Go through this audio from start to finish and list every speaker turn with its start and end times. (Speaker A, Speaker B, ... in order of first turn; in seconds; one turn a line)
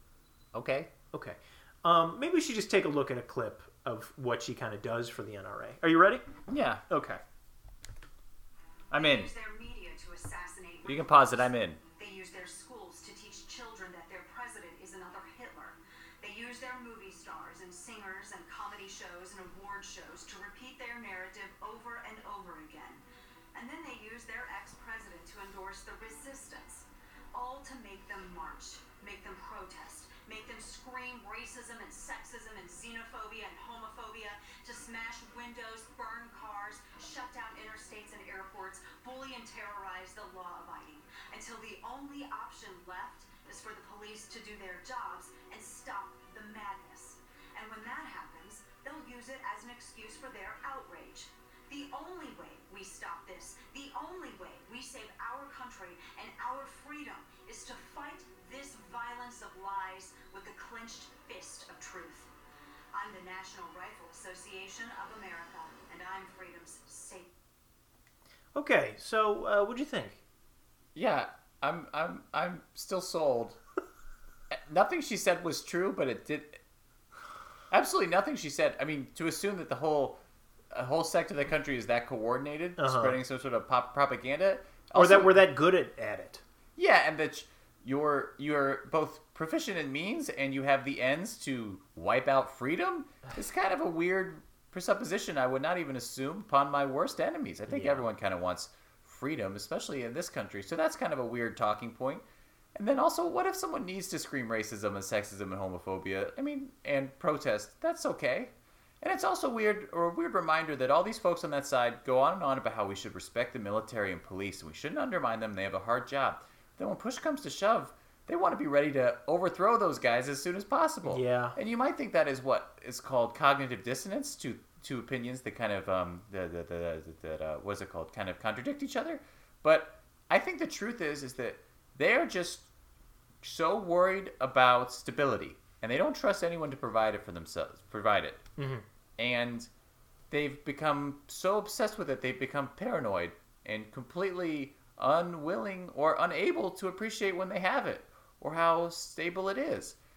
Speaker A: 0.5-0.9
Speaker B: 1.1-6.2
Speaker A: 6.5-6.8
Speaker B: 6.9-7.2
Speaker A: 8.9-9.3
Speaker C: 8.9-23.0
Speaker A: 10.8-11.8
Speaker C: 23.5-62.3
Speaker C: 62.9-67.3
Speaker B: 68.5-70.2
Speaker A: 70.9-73.6
Speaker A: 74.5-76.6
Speaker A: 77.7-80.2
Speaker A: 80.7-85.4
Speaker B: 82.8-83.2
Speaker B: 84.9-86.4
Speaker A: 86.8-102.2
Speaker B: 97.7-98.0
Speaker A: 102.8-132.7
Speaker B: 121.0-121.5
Speaker A: 133.4-138.4
Speaker B: 138.6-138.8
Speaker A: 139.2-139.7
Speaker A: 140.3-150.0